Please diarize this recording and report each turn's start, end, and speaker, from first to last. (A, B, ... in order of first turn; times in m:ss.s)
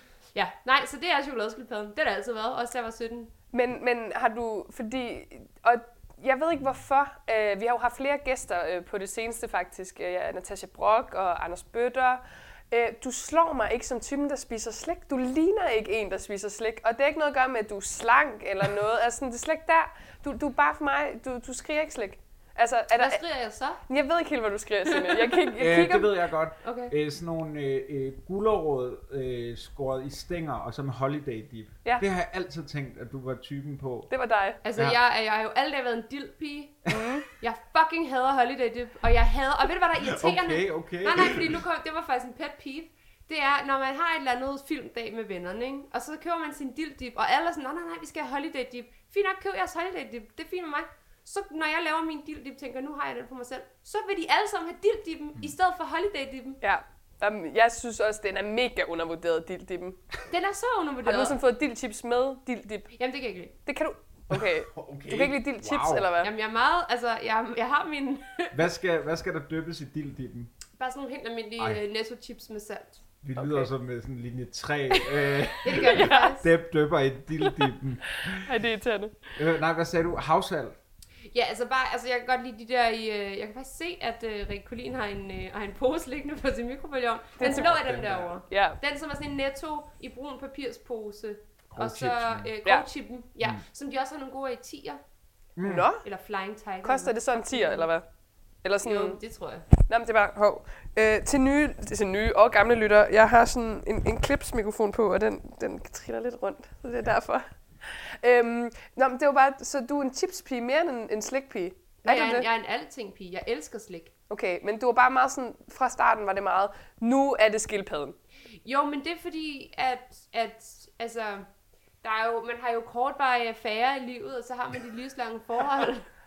0:00.3-0:03.3 A
0:03.5-0:23.2 B
0:22.9-0:23.8 A
0:23.9-0:26.2 B
0:24.9-0:25.4 A
0:25.6-0:34.1 C
0:26.6-0:26.9 A
0:34.1-0:34.6 B
0:34.6-0:36.8 A
0:36.9-0:37.2 B
0:37.4-0:56.6 A
0:40.0-0:41.6 C
0:56.6-1:00.0 B
1:00.3-1:01.4 A
1:01.0-1:02.9 B
1:03.0-1:03.5 A
1:03.6-1:06.3 B
1:04.3-1:06.1 C
1:06.2-1:08.6 A
1:08.5-1:10.5 C
1:10.8-1:13.6 A
1:13.2-1:18.5 C
1:14.9-1:16.3 B
1:15.6-1:16.5 A
1:17.4-1:19.2 B
1:19.4-1:20.8 C
1:21.3-1:35.0 A
1:27.4-1:28.4 C
1:27.4-1:27.7 B
1:28.5-1:28.8 B
1:31.7-1:32.5 C
1:35.6-1:35.9 C
1:35.6-1:36.0 B
1:36.0-1:37.9 A
1:36.8-1:38.0 B
1:38.6-1:39.2 B
1:38.8-1:39.6 A
1:39.8-1:52.4 B
1:52.0-1:54.1 A
1:54.3-1:58.2 B
1:58.6-2:01.5 A
2:02.0-2:06.1 A